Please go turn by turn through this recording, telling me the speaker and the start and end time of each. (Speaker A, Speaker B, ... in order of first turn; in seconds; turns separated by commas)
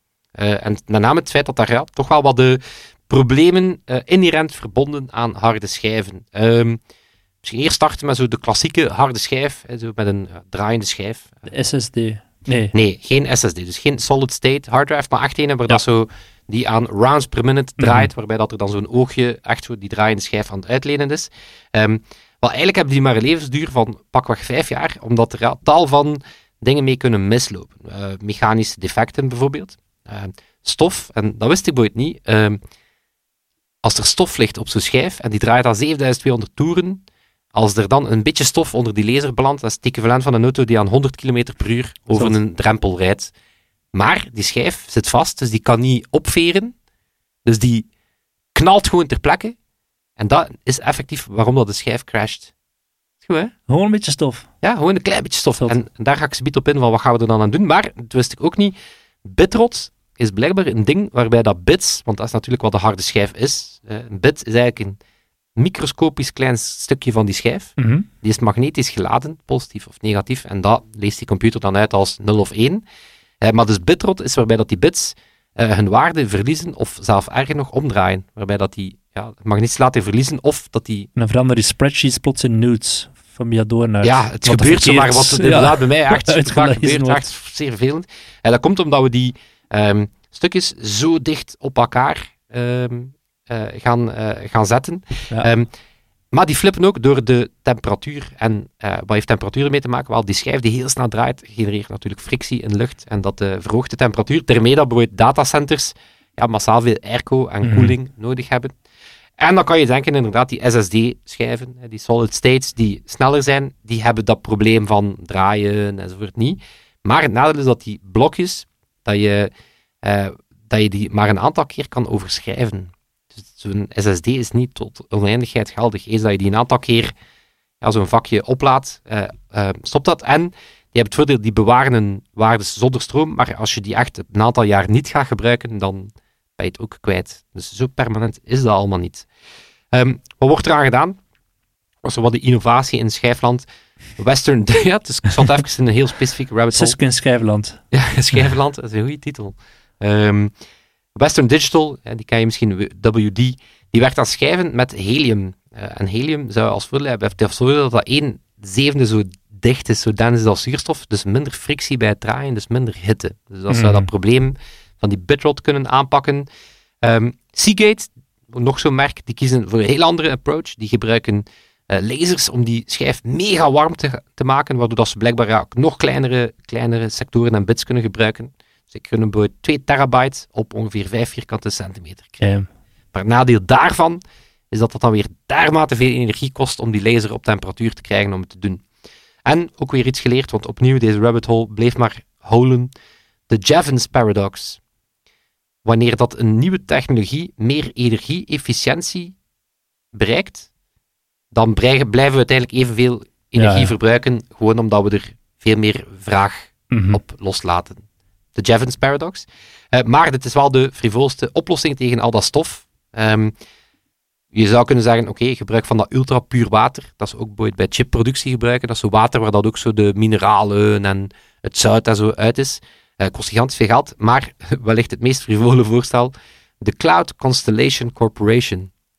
Speaker A: 0.4-6.8, Speaker A: 7.4-11.5, Speaker B: 11.5-12.7, Speaker A: 12.7-32.6, Speaker B: 17.8-18.1, Speaker A: 33.8-37.0, Speaker A: 37.5-43.3, Speaker A: 43.9-46.8, Speaker A: 47.5-47.9, Speaker A: 48.5-49.5, Speaker A: 50.2-52.5, Speaker A: 53.2-53.5, Speaker B: 53.7-54.5, Speaker A: 54.6-65.0, Speaker A: 65.6-72.8, Speaker B: 67.8-68.1, Speaker A: 73.4-81.1, Speaker B: 81.2-87.2, Speaker A: 84.0-95.7, Speaker A: 96.3-108.8, Speaker B: 107.6-108.0, Speaker A: 109.4-119.5, Speaker A: 120.0-127.1, Speaker A: 127.8-139.3, Speaker A: 139.9-141.2, Speaker A: 142.0-143.7, Speaker A: 144.2-147.0, Speaker B: 146.7-147.8, Speaker A: 147.9-150.5, Speaker A: 151.2-166.5, Speaker B: 163.7-164.1, Speaker A: 167.0-182.4, Speaker B: 182.4-182.7, Speaker A: 183.1-188.8, Speaker A: 189.4-192.9, Speaker A: 193.5-194.8, Speaker A: 195.8-199.4, Speaker A: 200.1-200.7, Speaker A: 201.5-208.0, Speaker B: 203.6-203.9, Speaker B: 206.9-207.2, Speaker A: 208.6-213.5, Speaker A: 214.5-228.9